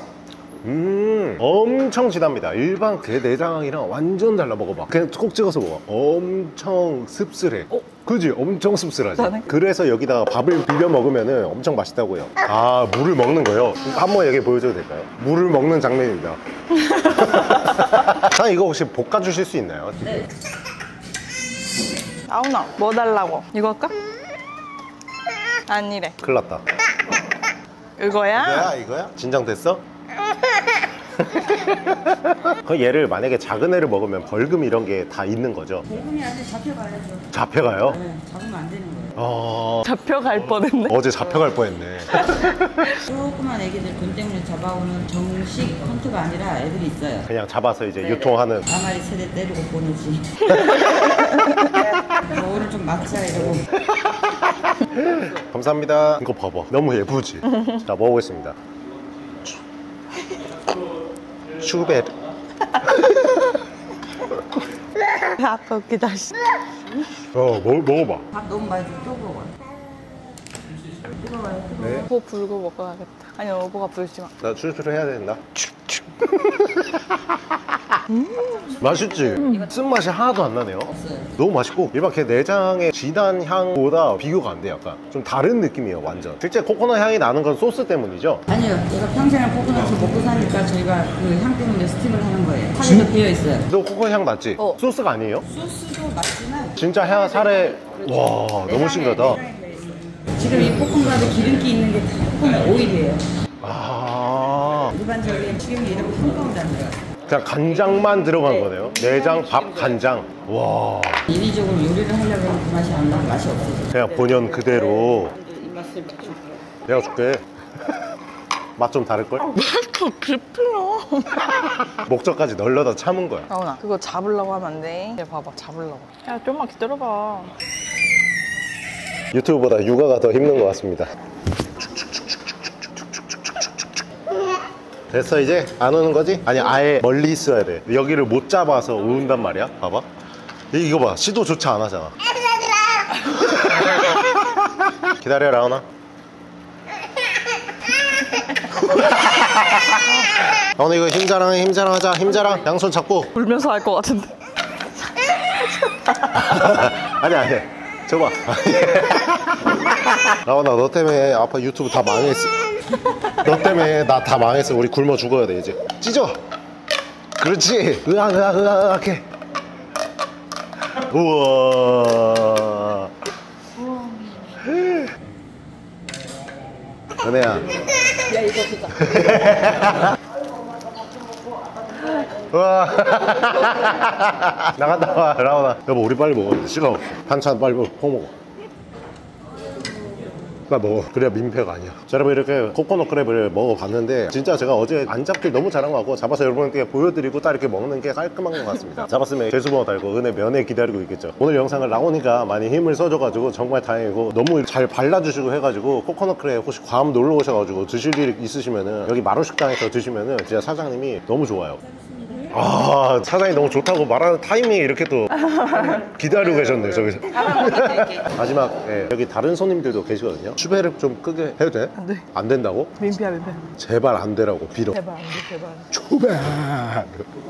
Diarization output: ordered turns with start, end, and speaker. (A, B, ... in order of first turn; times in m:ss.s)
0:00.6-0:16.4 A
0:09.2-0:09.5 B
0:17.0-0:20.3 A
0:22.2-0:23.9 B
0:25.7-0:26.2 B
0:26.2-0:26.6 A
0:28.0-0:28.7 B
0:28.3-0:29.8 A
0:31.2-0:35.8 A
0:35.8-0:39.3 C
0:37.3-0:38.0 A
0:39.2-0:39.9 A
0:39.8-0:41.0 B
0:40.9-0:42.9 A
0:43.0-0:47.3 C
0:47.2-0:48.6 A
0:48.0-0:53.7 C
0:54.3-0:58.6 A
1:01.5-1:02.2 A
1:02.8-1:03.2 A
1:05.1-1:06.4 B
1:07.3-1:08.3 A
1:08.3-1:09.6 C
1:11.1-1:12.1 C
1:11.8-1:12.1 A
1:12.0-1:14.3 B
1:14.4-1:15.6 A
1:15.7-1:16.0 B
1:16.2-1:18.0 A
1:18.1-1:18.7 B
1:18.4-1:19.8 C
1:18.8-1:28.4 A
1:19.4-1:19.7 B
1:20.8-1:21.3 C
1:28.5-1:33.7 C
1:33.7-1:35.4 A
1:35.5-1:43.2 C
1:36.8-1:39.4 A
1:43.6-1:45.0 A
1:44.9-1:47.0 C
1:47.3-1:51.3 A
1:47.8-1:50.0 C
1:51.3-1:56.6 C
1:53.9-1:55.4 A
1:56.8-1:57.4 A
1:58.8-1:59.5 A
1:59.5-2:01.8 B
2:01.8-2:03.5 A
2:03.5-2:07.5 B
2:09.3-2:11.1 A
2:11.8-2:12.4 A
2:13.0-2:13.8 A
2:15.1-2:20.1 A
2:20.7-2:22.2 A
2:23.2-2:25.8 A
2:28.8-2:30.1 A
2:30.6-2:33.3 A
2:33.3-2:34.4 B
2:35.0-2:36.5 B
2:36.3-2:42.7 A
2:43.3-2:46.4 A
2:47.4-2:49.2 A
2:50.9-2:53.1 A
2:54.6-2:55.1 A
2:57.2-2:57.7 A
2:58.8-3:00.2 A
3:02.5-3:08.3 A
3:10.7-3:31.8 A
3:32.5-3:35.3 A
3:35.4-3:36.0 B
3:35.9-3:43.0 A
3:37.3-3:38.3 C
3:42.0-3:42.2 B
3:43.0-3:43.6 B
3:43.7-3:45.0 A
3:44.9-3:45.9 B
3:45.9-3:47.2 A